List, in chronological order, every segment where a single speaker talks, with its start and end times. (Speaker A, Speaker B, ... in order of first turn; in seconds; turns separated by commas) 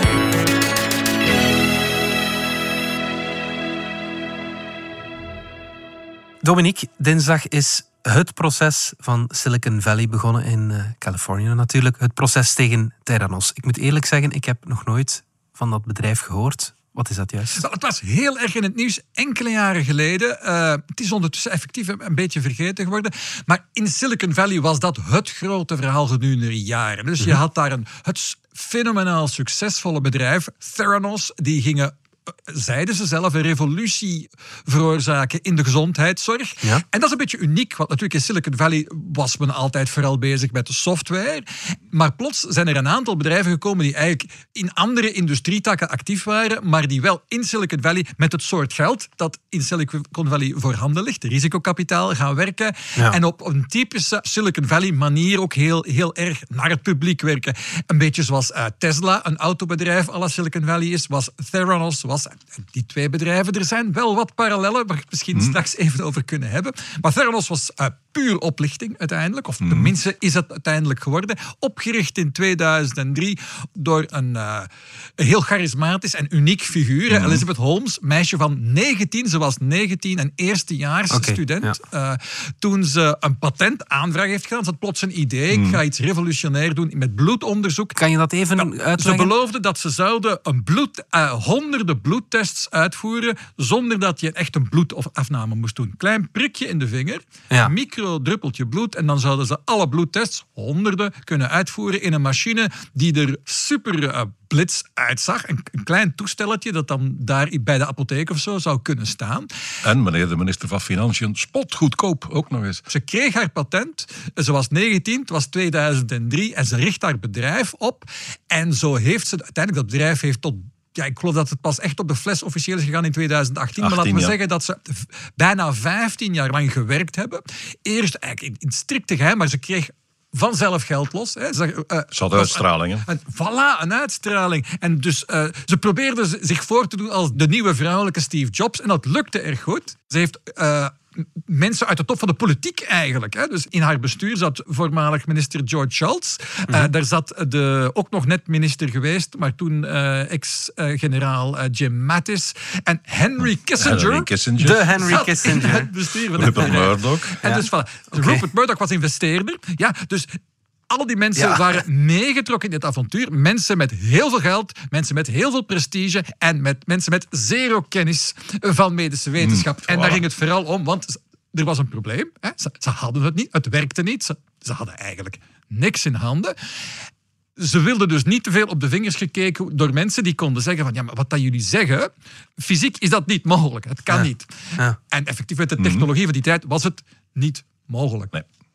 Speaker A: 6.4-17.6, Speaker B: 17.5-31.9, Speaker B: 32.5-88.0, Speaker C: 69.6-69.9, Speaker C: 77.1-77.4, Speaker A: 81.1-81.8, Speaker C: 85.5-85.8, Speaker A: 88.0-89.3, Speaker B: 88.5-109.5, Speaker C: 109.8-112.8, Speaker B: 112.9-154.3, Speaker C: 123.8-124.3, Speaker C: 132.1-133.1, Speaker C: 153.8-155.0, Speaker A: 154.6-155.9, Speaker B: 155.0-176.5, Speaker C: 156.4-157.4, Speaker A: 157.4-158.4, Speaker A: 161.3-161.8, Speaker C: 169.4-170.2, Speaker B: 177.6-188.3, Speaker C: 185.8-186.1